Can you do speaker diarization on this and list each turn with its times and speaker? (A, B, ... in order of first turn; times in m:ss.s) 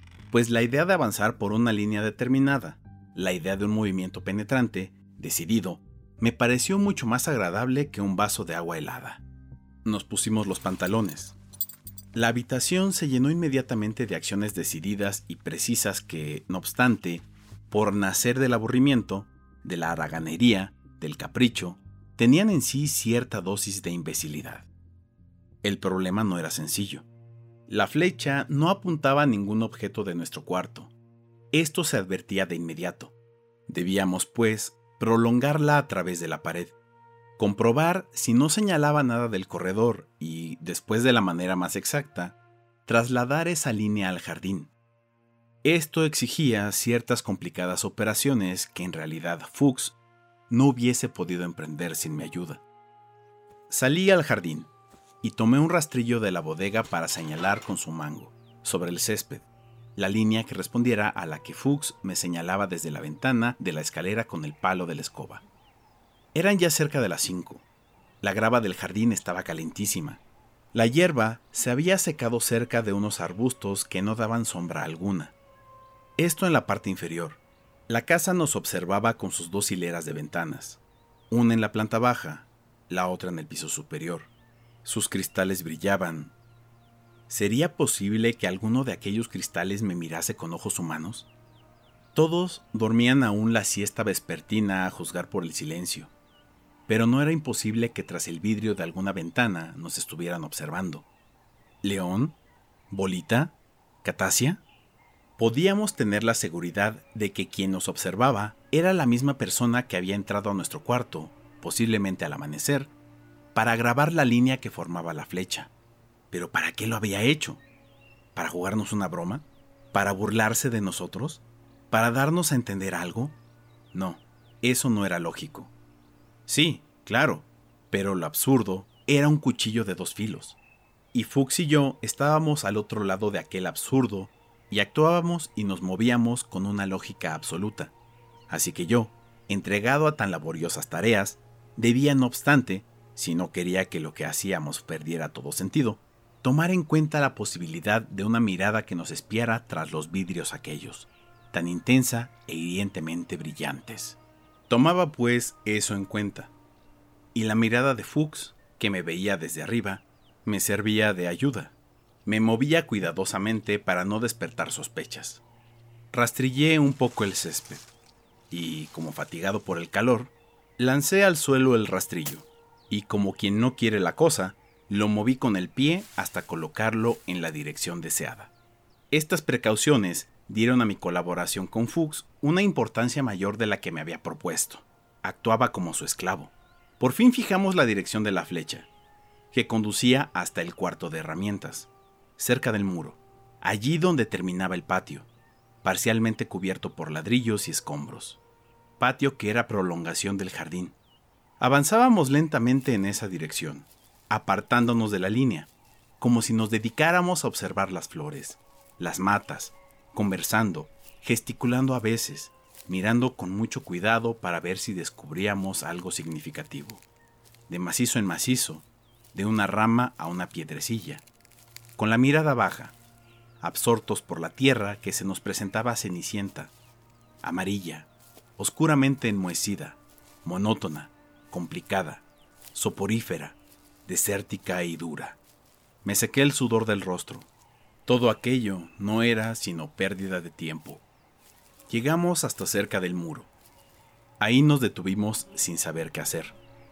0:00.3-0:09.2 A
0:09.8-0:11.4 A
0:12.1-0:24.7 A
0:25.6-0:27.0 A
0:27.7-0:30.9 A
0:31.5-0:33.1 A
0:33.7-0:36.7 A
0:37.4-0:42.3 A
0:42.8-0:44.7 A
0:45.6-0:50.0 A
0:50.5-0:52.6 A
0:53.7-0:54.7 A
0:55.2-0:59.4 A
1:00.0-1:05.4 A
1:06.3-1:07.6 A
1:08.2-1:10.2 A
1:10.7-1:15.3 A
1:16.2-1:20.8 A
1:21.3-1:24.3 A
1:24.8-1:26.3 A
1:27.3-1:31.2 A
1:32.1-1:36.1 A
1:36.9-1:41.0 A
1:41.8-1:42.4 A
1:42.9-1:44.6 A
1:45.4-1:52.9 A
1:53.5-1:55.7 A
1:56.3-1:57.6 A
1:58.3-2:03.3 A
2:03.9-2:05.7 A
2:06.5-2:10.6 A
2:11.1-2:17.9 A
2:18.5-2:36.5 A
2:37.3-2:41.7 A
2:42.2-2:45.4 A
2:46.1-2:47.8 A
2:48.5-2:58.5 A
2:59.1-3:08.9 A
3:09.5-3:15.2 A
3:15.8-3:18.4 A
3:19.0-3:20.9 A
3:21.6-3:25.7 A
3:26.2-3:37.0 A
3:37.7-3:41.2 A
3:42.0-3:42.9 A
3:43.6-3:46.7 A
3:47.4-3:52.2 A
3:52.7-3:55.4 A
3:56.0-3:57.5 A
3:58.0-4:01.0 A
4:01.9-4:03.5 A
4:04.4-4:06.5 A